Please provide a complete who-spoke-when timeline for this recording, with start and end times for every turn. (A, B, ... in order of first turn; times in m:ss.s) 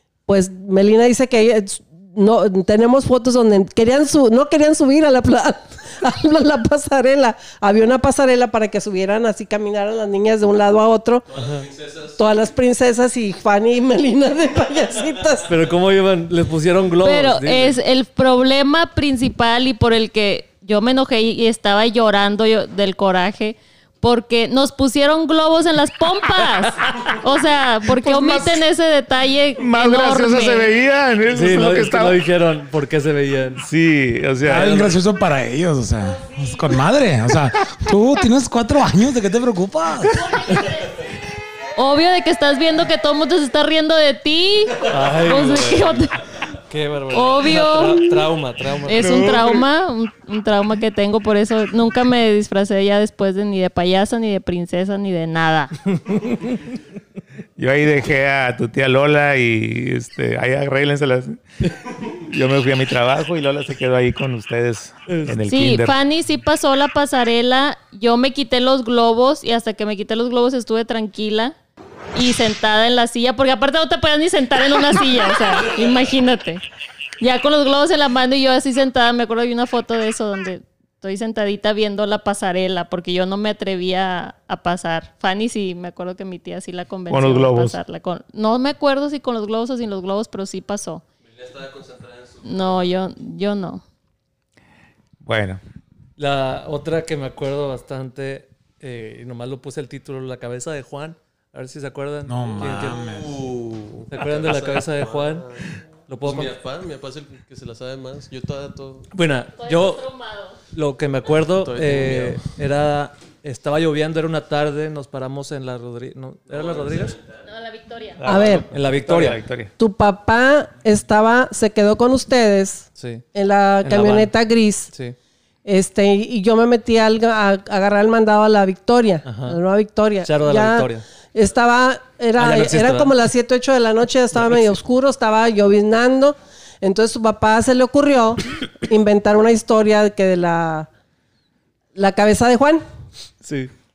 0:00.3-0:11.3 A
0:11.3-0:12.2 B
0:11.4-0:11.6 C
0:12.2-0:15.5 A
0:15.5-0:17.8 C
0:17.0-0:30.7 D
0:28.0-0:28.6 E
0:29.6-0:32.2 E
0:31.3-0:33.6 C
0:33.6-0:34.8 E
0:34.5-0:40.3 F
0:34.5-0:35.0 C
0:41.8-0:46.2 D
0:44.9-0:46.1 C
0:46.7-0:49.6 C
0:47.1-0:48.1 D
0:48.9-0:55.7 D
0:56.1-0:56.5 C
0:57.6-1:01.4 E
1:02.0-1:06.0 E
1:05.1-1:05.4 C
1:05.5-1:11.6 D
1:12.1-1:16.6 D
1:17.2-1:31.0 D
1:27.1-1:27.8 E
1:31.2-1:32.8 B
1:32.4-1:33.8 D
1:35.2-1:35.6 E
1:36.2-1:43.0 C
1:42.3-1:43.4 F
1:42.6-1:45.6 B
1:44.1-1:45.5 C
1:46.1-1:46.6 C
1:46.2-1:49.1 B
1:49.1-1:50.1 C
1:49.6-1:50.6 D
1:50.7-1:57.2 C
1:51.5-1:52.4 B
1:56.5-1:57.5 B
1:57.5-1:58.2 D
1:58.2-1:59.7 E
1:58.2-1:58.7 A
1:58.7-1:59.4 C
1:59.8-2:04.9 A
2:03.0-2:03.2 C
2:03.8-2:04.3 C
2:05.6-2:20.9 A
2:09.2-2:09.6 C
2:10.2-2:11.0 C
2:12.4-2:13.2 C
2:14.3-2:14.7 C
2:22.0-2:22.9 A
2:23.4-2:23.7 C